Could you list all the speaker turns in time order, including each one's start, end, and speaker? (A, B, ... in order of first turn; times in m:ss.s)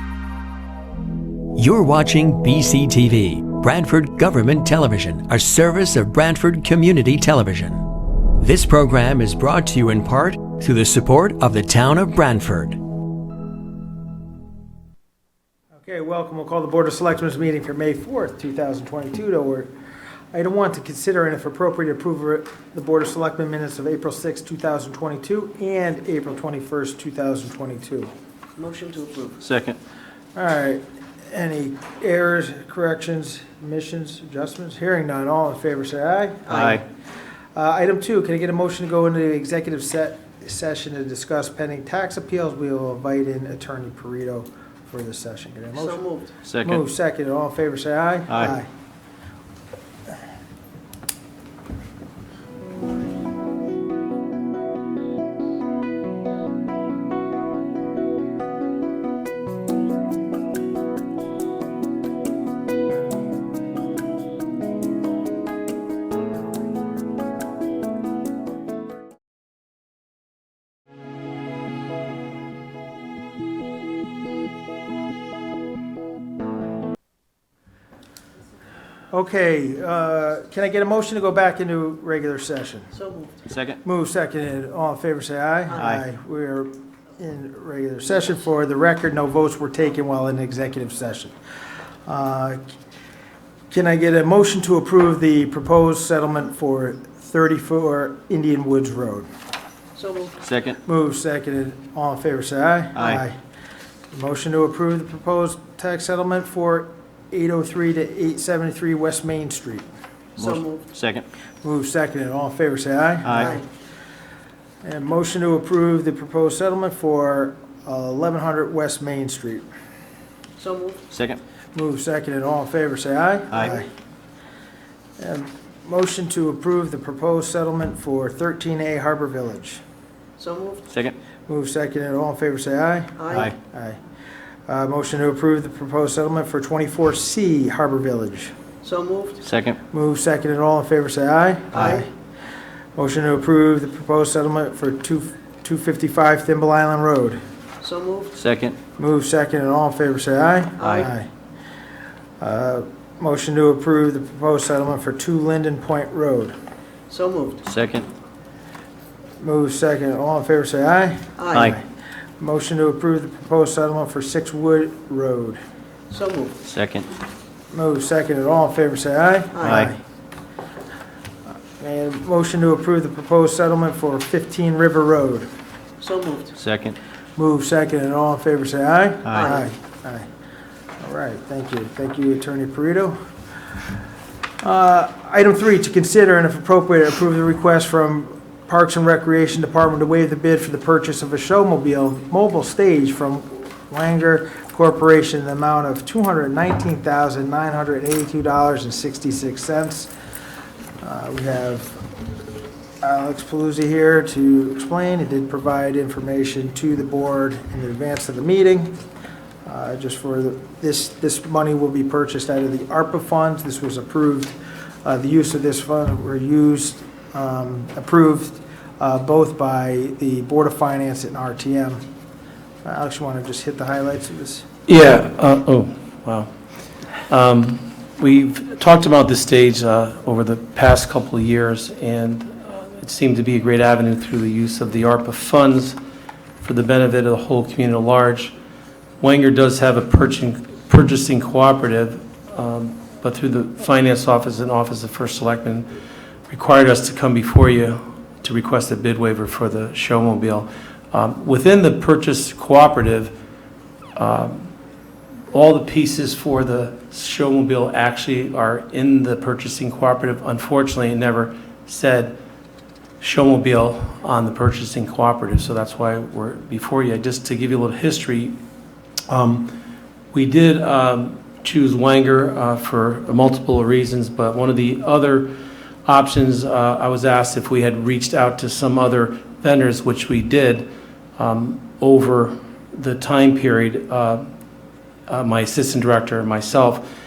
0:01.5-0:12.8 A
0:15.8-0:19.7 B
0:20.3-0:28.1 B
0:28.6-0:29.4 C
0:29.4-0:29.8 D
0:30.3-0:36.8 B
0:36.5-0:36.8 D
0:37.5-0:46.0 B
0:45.8-0:46.3 C
0:46.4-0:46.8 D
0:46.6-0:48.7 B
0:48.3-0:48.5 D
1:19.1-1:22.9 B
1:23.0-1:23.4 C
1:23.5-1:23.8 D
1:23.8-1:31.3 B
1:32.0-1:32.6 B
1:33.7-1:39.3 B
1:39.9-1:40.4 C
1:40.4-1:40.8 D
1:40.8-1:43.4 B
1:43.0-1:43.2 D
1:44.1-1:49.8 B
1:50.4-1:51.2 D
1:50.4-1:50.9 C
1:51.6-1:53.6 B
1:53.2-1:53.5 D
1:53.4-1:53.6 C
1:54.8-1:59.6 B
2:00.6-2:01.1 C
2:01.1-2:01.4 D
2:01.7-2:03.9 B
2:05.2-2:09.8 B
2:10.4-2:10.9 C
2:10.9-2:11.2 D
2:11.5-2:14.0 B
2:13.2-2:13.5 C
2:14.7-2:18.5 B
2:18.8-2:19.4 C
2:19.4-2:19.8 D
2:19.9-2:22.1 B
2:23.0-2:27.4 B
2:27.8-2:28.4 C
2:28.4-2:28.8 D
2:29.0-2:31.3 B
2:30.8-2:31.0 D
2:32.4-2:36.5 B
2:37.1-2:37.6 C
2:37.6-2:38.1 D
2:39.4-2:41.8 B
2:41.4-2:41.7 C
2:41.5-2:41.8 D
2:42.4-2:45.6 B
2:46.1-2:46.6 C
2:46.6-2:47.1 D
2:47.7-2:50.0 B
2:49.6-2:49.9 D
2:51.8-2:55.5 B
2:56.0-2:56.5 C
2:56.6-2:57.0 D
2:57.4-3:00.3 B
3:01.0-3:03.1 B
3:04.6-3:20.1 B
3:21.0-3:22.0 B
3:23.0-3:28.9 B
3:29.6-3:42.0 B
3:42.8-3:44.6 B
3:44.9-3:46.5 E
3:47.3-3:56.0 E
3:56.6-3:58.5 E
3:59.2-4:05.9 E
4:06.5-4:13.3 E
4:14.2-4:14.7 E
4:15.5-4:22.4 E
4:23.2-4:28.6 E
4:29.3-4:29.7 E
4:30.3-4:35.5 E
4:36.0-4:44.4 E
4:45.3-4:47.0 E